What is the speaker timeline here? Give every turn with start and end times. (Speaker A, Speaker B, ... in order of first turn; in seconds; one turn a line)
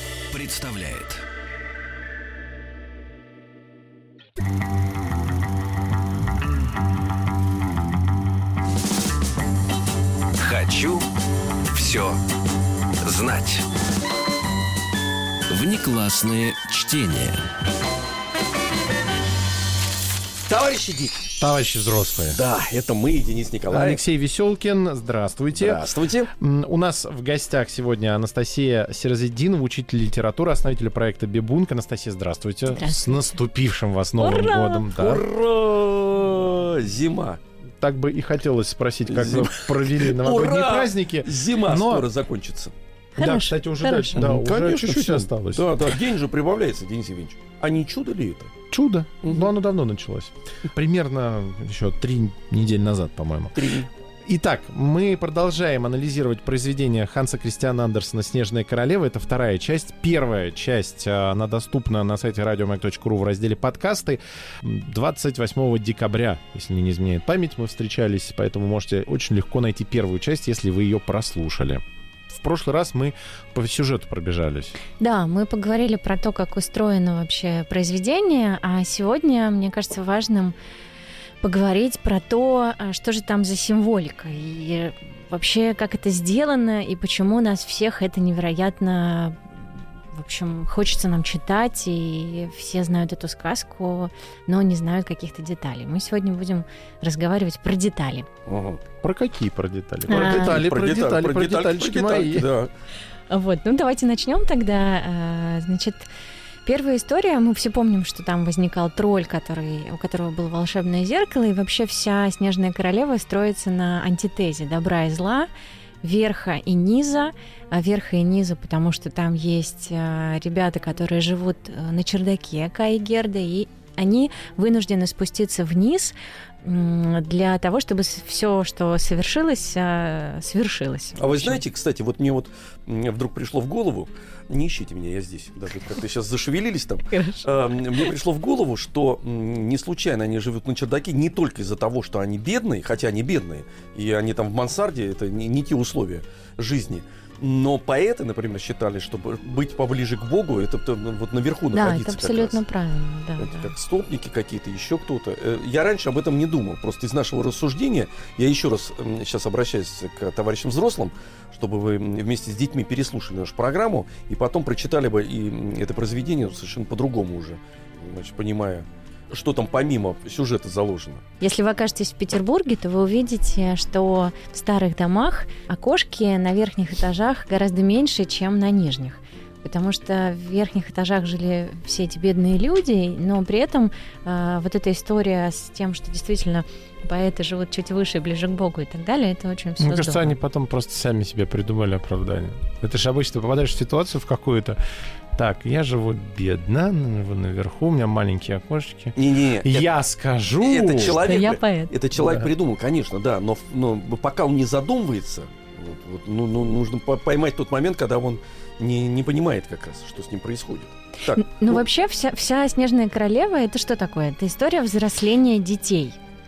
Speaker A: 0.3-1.2
Speaker A: 10.4-11.1
Speaker A: 11.7-12.2
Speaker A: 13.0-13.7
Speaker A: 15.5-17.4
Speaker B: 20.5-21.3
Speaker C: 21.4-22.4
Speaker B: 22.3-24.0
Speaker C: 23.7-35.2
Speaker B: 25.5-26.3
Speaker D: 32.7-33.4
Speaker D: 34.2-34.9
Speaker B: 34.9-37.4
Speaker C: 37.8-42.1
Speaker B: 39.1-42.7
Speaker D: 43.1-44.2
Speaker C: 43.2-46.0
Speaker B: 44.1-48.5
Speaker C: 48.7-53.7
Speaker B: 49.2-49.5
Speaker B: 53.5-53.9
Speaker C: 54.2-74.7
Speaker D: 75.0-80.5
Speaker D: 81.4-98.3
Speaker B: 98.5-98.8
Speaker C: 99.0-102.5
Speaker D: 100.1-100.6
Speaker B: 100.1-102.7
Speaker D: 103.3-106.1
Speaker D: 106.7-115.5
Speaker D: 116.0-131.6
Speaker B: 131.2-152.6
Speaker D: 137.1-137.7
Speaker D: 151.7-153.7
Speaker B: 153.4-171.2
Speaker D: 171.4-190.3
Speaker C: 189.8-194.8
Speaker C: 195.3-201.2
Speaker B: 199.1-199.9
Speaker B: 200.6-211.8
Speaker D: 201.0-201.9
Speaker C: 202.2-202.5
Speaker D: 211.3-216.2